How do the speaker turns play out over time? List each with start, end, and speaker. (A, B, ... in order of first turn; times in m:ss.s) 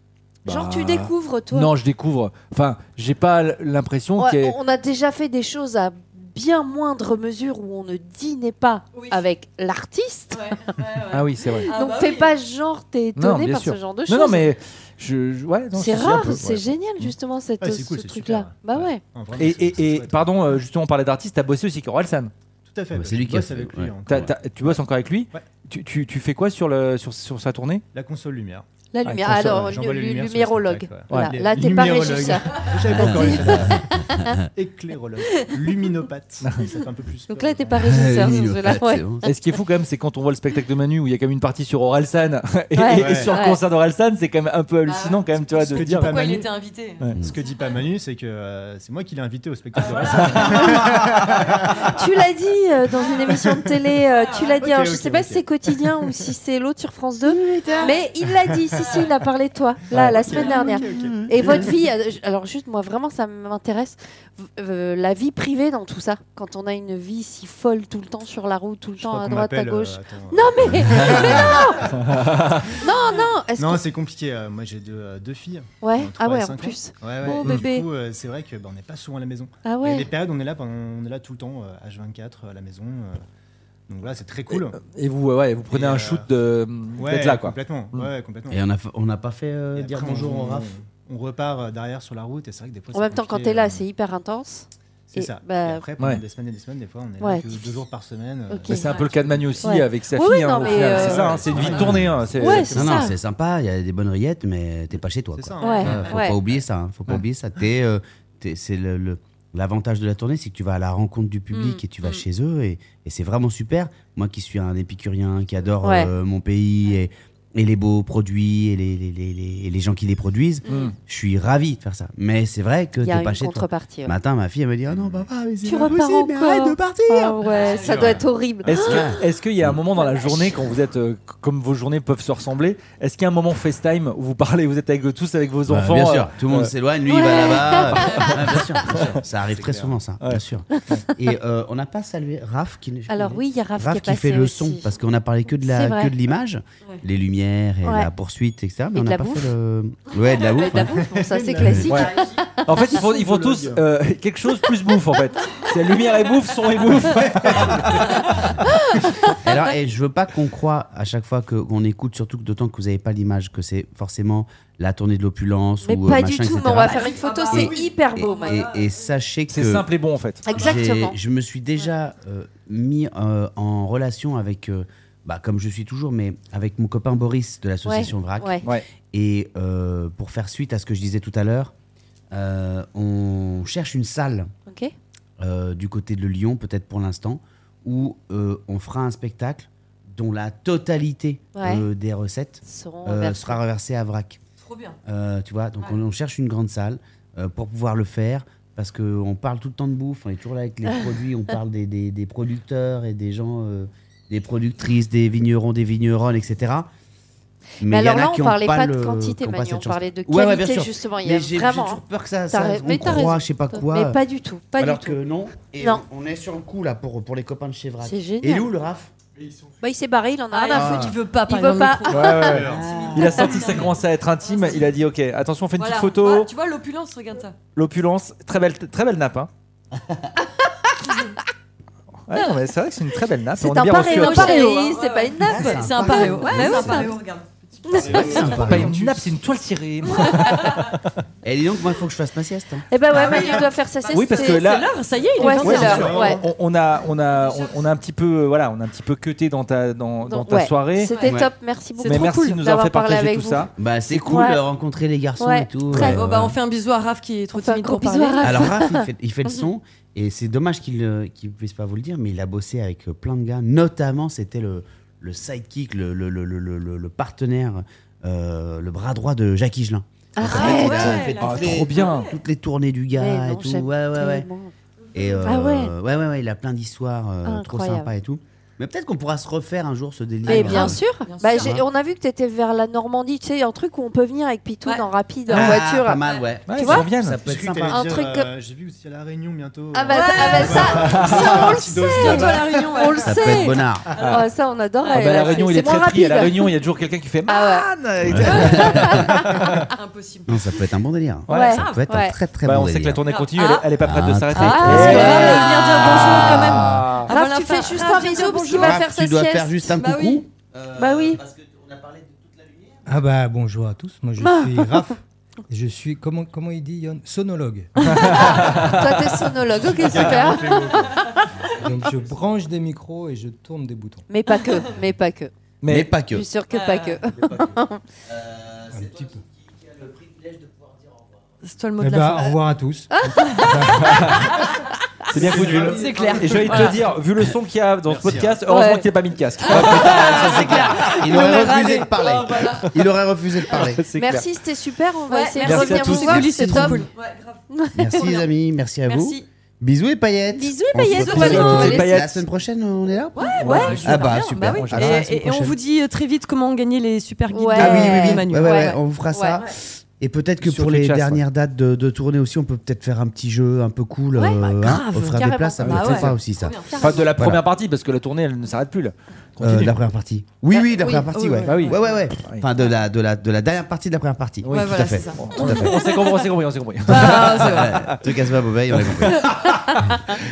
0:00.4-0:01.7 A
0:00.4-0:04.6 B
0:04.2-0:14.5 A
0:08.9-0:09.2 C
0:10.3-0:12.3 C
0:11.1-0:11.7 B
0:13.2-0:17.1 B
0:15.7-0:19.0 A
0:17.6-0:20.3 D
0:19.4-0:22.3 B
0:22.6-0:25.4 D
0:22.9-0:24.3 E
0:24.1-0:27.8 B
0:27.9-0:28.7 D
0:28.9-0:34.4 A
0:29.0-0:29.8 B
0:29.3-0:38.3 D
0:31.1-0:31.6 B
0:33.1-0:33.4 B
0:33.3-0:34.4 E
0:35.4-0:35.9 A
0:36.4-0:36.7 B
0:37.3-0:39.3 A
0:37.8-0:39.2 E
0:39.2-0:46.2 B
0:42.7-0:43.6 A
0:42.9-0:43.4 D
0:44.8-0:47.6 C
0:45.7-0:46.5 D
0:47.2-0:52.0 D
0:50.3-0:50.6 B
0:50.4-0:50.9 A
0:51.7-1:11.9 A
0:53.2-0:53.8 D
0:54.1-0:54.6 C
0:54.6-0:56.3 D
0:57.2-0:57.9 E
0:57.6-0:58.0 C
0:58.2-0:58.8 D
0:59.9-1:01.7 D
1:00.2-1:00.7 C
1:00.8-1:01.7 E
1:09.0-1:12.9 D
1:11.9-1:12.7 B
1:12.8-1:13.8 A
1:13.6-1:23.2 D
1:15.8-1:17.9 A
1:19.6-1:20.1 A
1:23.9-1:24.8 D
1:24.5-1:28.1 B
1:25.7-1:26.3 D
1:26.9-1:28.6 D
1:28.5-1:30.7 E
1:29.7-1:33.8 D
1:32.9-1:35.8 A
1:35.1-1:39.6 D
1:37.2-1:37.4 A
1:38.7-1:42.9 B
1:38.8-1:39.1 C
1:39.6-1:43.2 A
1:40.6-1:43.2 D
1:41.5-2:08.2 E
1:41.6-1:42.0 C
1:45.3-1:46.7 D
1:45.6-1:45.9 C
1:45.6-1:46.4 A
1:51.5-1:52.2 A
1:55.8-1:56.1 A
2:00.7-2:00.9 B
2:03.0-2:04.1 A
2:05.6-2:09.2 A
2:07.4-2:08.2 C
2:07.6-2:09.1 D
2:08.6-2:16.7 B
2:08.8-2:09.8 E
2:10.0-2:10.5 A
2:15.7-2:31.0 E
2:17.0-2:18.7 A
2:18.0-2:18.3 C
2:18.9-2:19.2 B
2:19.0-2:20.0 D
2:20.2-2:21.0 B
2:23.1-2:24.9 A
2:25.6-2:26.1 A
2:28.9-2:29.5 A
2:30.3-2:33.1 A
2:30.9-2:33.8 D
2:31.9-2:38.1 B
2:36.9-2:38.2 D
2:37.6-2:38.0 E
2:38.6-2:39.6 A
2:39.4-2:49.9 E
2:45.8-2:48.6 A
2:46.8-2:49.0 C
2:49.5-2:50.4 B
2:50.4-2:51.2 A
2:50.4-3:01.7 E
2:57.8-2:58.6 A
3:02.3-3:04.5 E
3:04.7-3:04.9 A
3:05.4-3:14.4 E
3:11.6-3:11.8 A
3:12.6-3:13.6 A
3:14.6-3:15.0 C
3:15.0-3:26.9 E
3:27.8-3:34.2 E
3:27.8-3:35.2 A
3:34.8-3:39.1 E
3:38.0-3:38.7 A
3:39.4-3:39.8 D
3:39.8-3:42.8 A
3:40.5-3:45.0 C
3:40.7-3:41.2 E
3:42.1-3:46.5 B
3:42.4-3:43.0 D
3:42.7-3:43.5 E
3:43.4-3:43.6 A
3:45.8-3:47.6 C
3:47.7-3:49.5 B
3:52.3-3:54.7 B
3:53.6-3:57.1 A
3:54.0-3:57.4 C
3:55.4-3:57.1 E
3:57.8-3:58.6 A
3:57.8-3:59.2 D
3:58.0-3:59.0 E
3:58.1-3:58.6 C
3:58.4-4:01.0 B
4:00.2-4:00.9 C
4:01.4-4:02.8 E
4:02.9-4:04.8 A
4:03.1-4:06.4 C
4:03.1-4:03.6 D
4:04.1-4:04.9 B
4:05.4-4:06.4 A
4:05.6-4:06.5 D
4:05.6-4:11.1 B
4:07.1-4:07.9 C
4:10.3-4:14.6 A
4:11.0-4:12.3 C
4:11.2-4:11.5 E
4:12.0-4:13.7 B
4:13.8-4:16.5 E
4:15.4-4:16.2 A
4:15.9-4:18.7 C
4:17.5-4:19.6 A
4:18.4-4:34.5 E
4:30.4-4:31.4 A
4:30.4-4:32.4 C
4:30.8-4:32.2 B
4:33.1-4:34.7 A
4:35.1-4:35.4 C
4:35.1-4:41.0 E
4:35.4-4:35.9 A
4:37.4-4:38.1 A
4:40.4-4:47.1 A
4:40.5-4:41.8 C
4:40.5-4:40.9 B
4:41.5-4:41.8 E
4:45.5-4:48.1 E
4:46.7-4:47.4 B
4:47.3-4:53.0 D
4:47.9-4:48.5 A
4:49.9-4:56.7 A
4:50.1-4:53.6 C
4:51.0-4:51.7 B
4:53.2-4:54.1 E
4:54.2-4:54.5 B
4:55.0-4:56.0 C
4:55.1-4:59.9 B
4:57.5-4:57.9 A
4:58.2-4:59.3 E
4:58.4-4:59.7 A
4:58.4-4:58.8 C
4:59.9-5:00.7 C
5:00.5-5:03.2 E
5:01.5-5:01.8 B
5:01.5-5:02.4 A
5:01.6-5:02.0 C
5:02.6-5:07.3 B
5:03.3-5:03.9 C
5:04.0-5:07.1 E
5:04.6-5:05.8 A
5:04.7-5:09.0 C
5:07.3-5:09.9 A
5:08.6-5:13.0 E
5:10.0-5:10.4 C
5:10.9-5:11.4 A
5:13.0-5:17.9 F
5:14.4-5:15.1 A
5:18.0-5:19.4 B
5:18.0-5:21.3 A
5:19.9-5:21.5 D
5:21.5-5:22.3 E
5:21.6-5:24.2 F
5:24.3-5:25.5 A
5:25.8-5:26.1 B
5:25.9-5:26.4 E
5:26.3-5:28.0 A
5:26.7-5:27.2 C
5:27.4-5:31.4 E
5:28.9-5:29.4 F
5:31.6-5:32.6 C
5:32.0-5:34.8 F
5:33.1-5:34.2 A
5:34.0-5:34.5 B
5:35.3-5:35.6 A
5:35.3-5:41.7 B
5:35.3-5:37.1 D
5:35.4-5:37.0 C
5:35.6-5:36.0 F
5:38.0-5:38.6 D
5:38.6-5:39.1 A
5:39.6-5:42.9 C
5:39.7-5:44.0 E
5:43.7-5:44.4 B
5:44.2-5:47.1 A
5:45.3-5:48.5 C
5:45.6-5:47.0 B
5:47.7-5:48.2 A
5:47.9-5:55.8 E
5:49.1-5:49.4 C
5:50.5-5:52.2 A
5:51.1-5:51.8 C
5:51.2-5:52.4 B
5:53.4-5:58.9 C
5:53.4-5:54.0 A
5:53.6-5:55.3 B
5:57.5-5:59.6 A
5:57.7-6:07.6 E
6:00.6-6:01.4 B
6:04.3-6:06.3 A
6:04.8-6:07.3 C
6:05.8-6:06.3 B
6:06.8-6:07.3 A
6:07.0-6:09.9 B
6:09.6-6:16.0 E
6:10.7-6:12.2 C
6:11.7-6:12.6 B
6:14.6-6:20.2 B
6:14.7-6:16.5 C
6:17.1-6:18.0 C
6:17.1-6:19.7 E
6:19.6-6:20.2 C